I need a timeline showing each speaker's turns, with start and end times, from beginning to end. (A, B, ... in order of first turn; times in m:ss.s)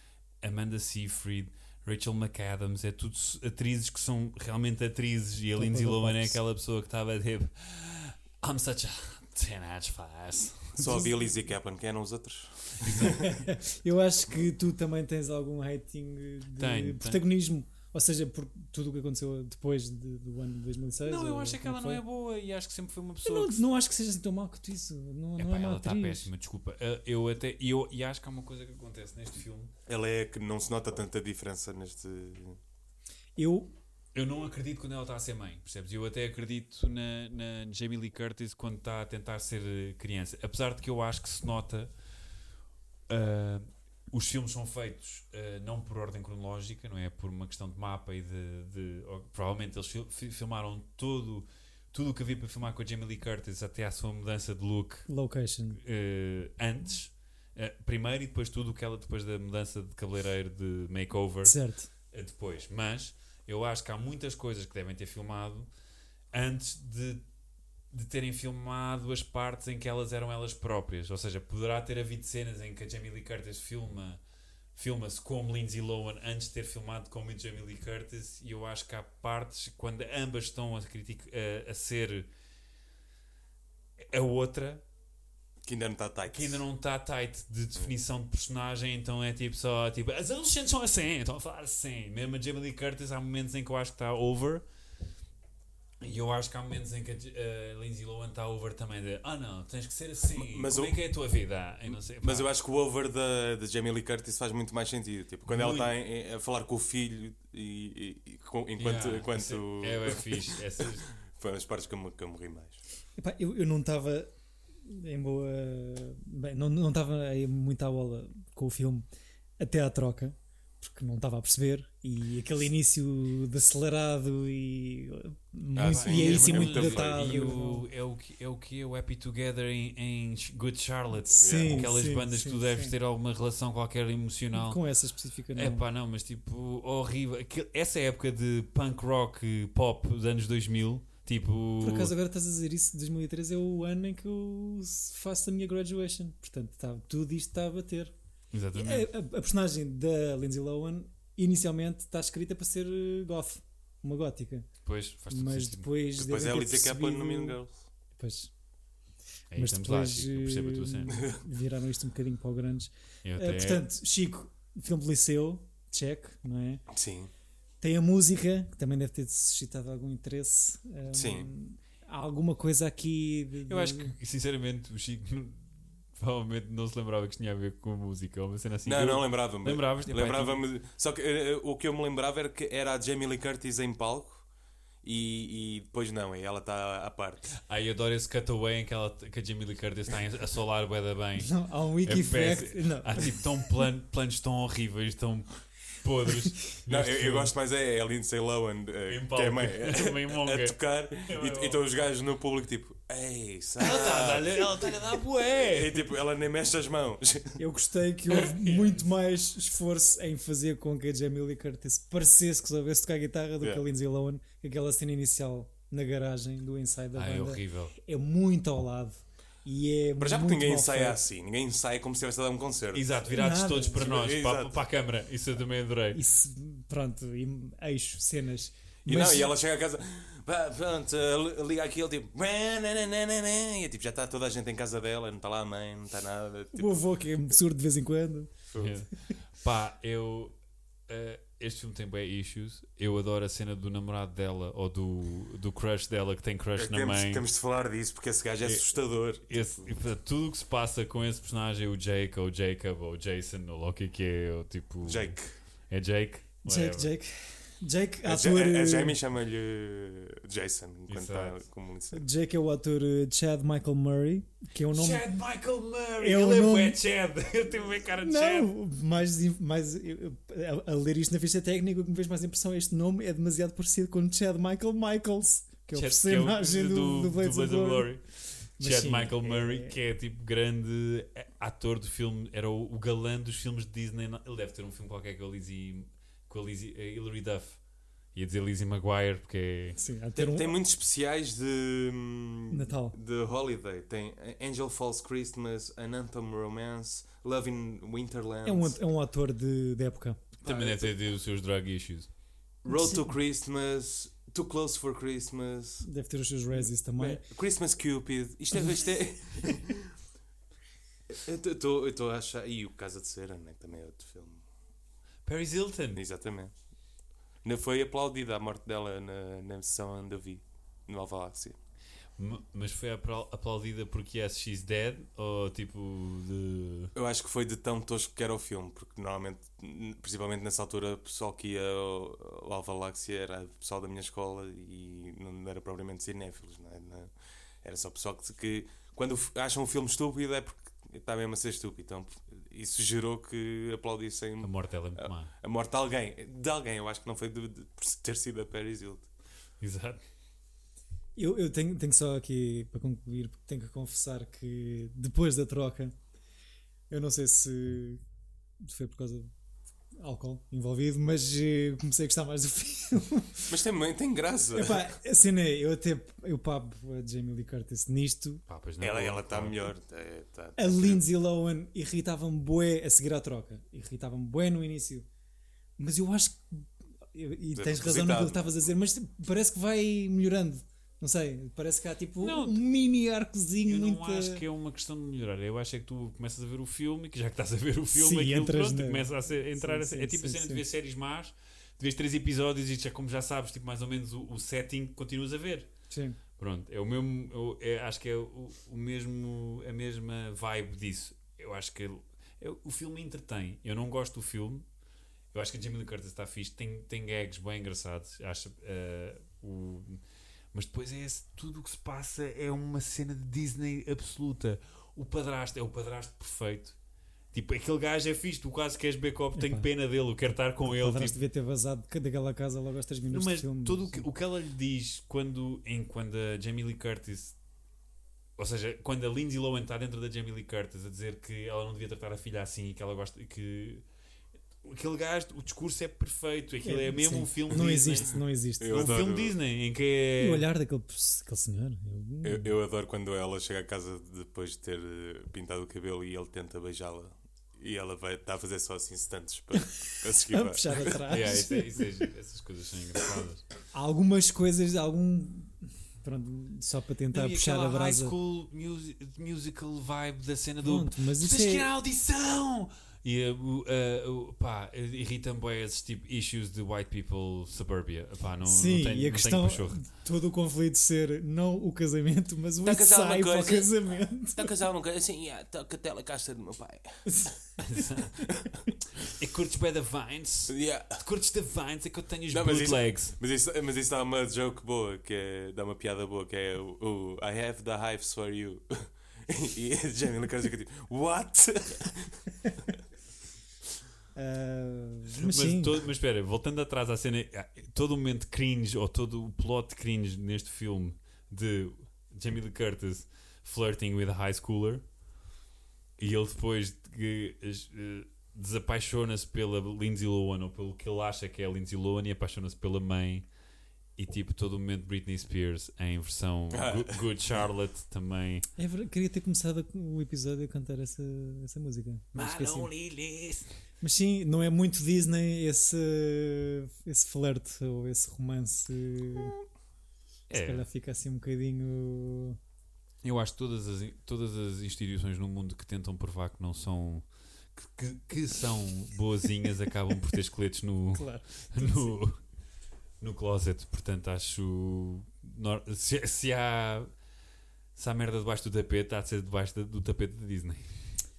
0:00.4-0:11.0 A
0:05.6-0:06.4 B
0:10.8-0:11.1 B
0:10.8-0:13.4 C
0:12.8-0:13.3 A
0:13.1-0:22.0 B
0:16.6-0:17.2 A
0:21.0-0:23.6 A
0:23.2-0:26.3 B
0:25.4-0:29.7 A
0:29.9-0:32.6 C
0:33.4-0:33.7 B
0:34.1-0:41.9 A
0:43.1-0:55.1 A
0:55.1-0:55.8 B
0:55.8-1:01.6 A
1:01.4-1:01.9 B
1:02.1-1:05.7 A
1:06.3-1:07.2 A
1:07.9-1:14.2 A
1:14.8-1:22.3 A
1:24.0-1:24.8 A
1:25.6-1:26.6 C
1:26.3-1:34.6 A
1:36.0-1:42.5 A
1:40.4-1:41.0 C
1:42.2-1:52.8 C
1:45.5-1:45.9 A
1:48.8-1:51.1 A
1:53.2-1:54.3 B
1:54.9-1:59.1 B
1:59.6-2:07.9 B
2:05.8-2:07.5 C
2:05.8-2:14.8 A
2:11.2-2:12.9 B
2:11.4-2:11.9 C
2:14.5-2:15.8 B
2:15.6-2:22.1 A
2:21.8-2:28.1 B
2:28.5-2:29.1 A
2:28.7-2:34.7 B
2:34.8-2:35.9 A
2:35.3-2:37.6 B
2:36.2-2:37.8 C
2:38.2-2:38.5 B
2:39.5-2:41.3 A
2:39.6-2:46.8 B
2:43.2-2:43.8 A
2:46.9-2:47.3 C
2:47.8-2:54.1 B
2:51.1-2:51.5 C
2:53.7-2:55.6 A
2:56.2-3:00.6 A
2:58.8-3:04.4 C
3:05.0-3:07.5 C
3:07.7-3:17.5 A
3:11.4-3:13.5 B
3:16.9-3:25.0 C
3:19.1-3:21.8 A
3:23.8-3:26.0 A
3:25.6-3:27.6 C
3:27.6-3:41.2 B
3:28.5-3:29.0 A
3:37.2-3:38.0 A
3:40.2-3:43.2 C
3:42.9-3:46.2 A
3:43.3-3:44.0 B
3:44.0-3:44.8 C
3:46.1-3:49.5 B
3:49.0-3:57.0 C
3:56.8-3:58.5 B
3:58.7-3:59.0 C
3:58.8-4:00.6 A
4:01.1-4:07.5 A
4:06.8-4:09.8 C
4:09.4-4:15.4 A
4:15.0-4:15.6 C
4:15.9-4:17.1 A
4:16.6-4:19.2 B
4:18.2-4:22.2 C
4:21.1-4:21.6 A
4:22.1-4:25.3 B
4:24.9-4:28.7 A
4:26.2-4:27.0 B
4:28.2-4:38.1 B
4:35.9-4:38.2 A
4:38.8-4:39.9 B
4:38.8-4:47.8 A
4:48.4-4:50.0 A
4:50.0-4:50.8 B
4:50.4-4:59.0 C
4:52.7-4:53.2 B
4:58.6-5:00.4 B
5:00.6-5:02.3 A
5:00.6-5:01.1 C
5:02.8-5:06.1 C
5:02.9-5:03.3 B
5:06.0-5:07.4 B
5:06.7-5:10.1 C
5:11.3-5:14.6 C
5:15.5-5:16.2 A
5:16.2-5:16.7 C
5:17.6-5:21.8 C
5:22.4-5:27.1 A
5:27.2-5:37.3 C
5:37.8-5:49.3 C
5:44.6-5:45.5 A
5:49.8-5:50.2 A
5:51.4-5:56.2 B
5:57.1-5:58.2 B
5:58.8-5:59.5 B
6:00.2-6:03.7 B
6:03.7-6:05.1 C
6:04.7-6:08.6 B
6:08.7-6:09.9 A
6:09.0-6:11.2 C
6:10.8-6:15.3 B
6:16.0-6:24.6 B
6:17.8-6:18.9 C
6:22.4-6:22.8 A
6:23.8-6:35.9 A
6:28.1-6:30.8 B
6:36.1-6:36.4 B
6:36.6-6:44.9 A
6:45.5-6:50.2 A
6:50.7-6:57.0 A
6:57.5-7:01.4 A
6:59.6-6:59.9 B
7:00.8-7:04.3 B
7:03.3-7:07.6 A
7:08.6-7:14.0 A
7:14.8-7:20.7 A
7:16.8-7:19.1 B
7:18.8-7:19.6 C
7:20.4-7:22.8 B
7:22.4-7:31.3 C
7:29.8-7:32.0 B
7:31.3-7:33.6 A
7:33.9-7:38.4 B
7:37.3-7:50.1 A
7:40.8-7:41.9 B
7:48.6-7:54.7 B
7:52.8-7:53.9 C
7:54.5-7:57.2 C
7:57.3-7:57.6 B
7:57.8-7:58.5 A
7:59.2-8:03.4 A
8:00.7-8:01.2 C
8:02.5-8:12.5 C
8:14.4-8:16.0 B
8:15.4-8:25.0 A
8:26.2-8:33.5 A
8:34.2-8:38.7 A
8:36.7-8:37.2 C
8:38.8-8:42.9 B
8:42.4-8:43.7 A
8:44.0-8:49.6 B
8:50.5-8:50.8 A
8:50.5-8:52.6 B
8:53.2-8:57.2 A
8:57.8-9:02.4 A
9:01.1-9:02.2 B
9:03.2-9:07.1 A
9:08.0-9:10.9 A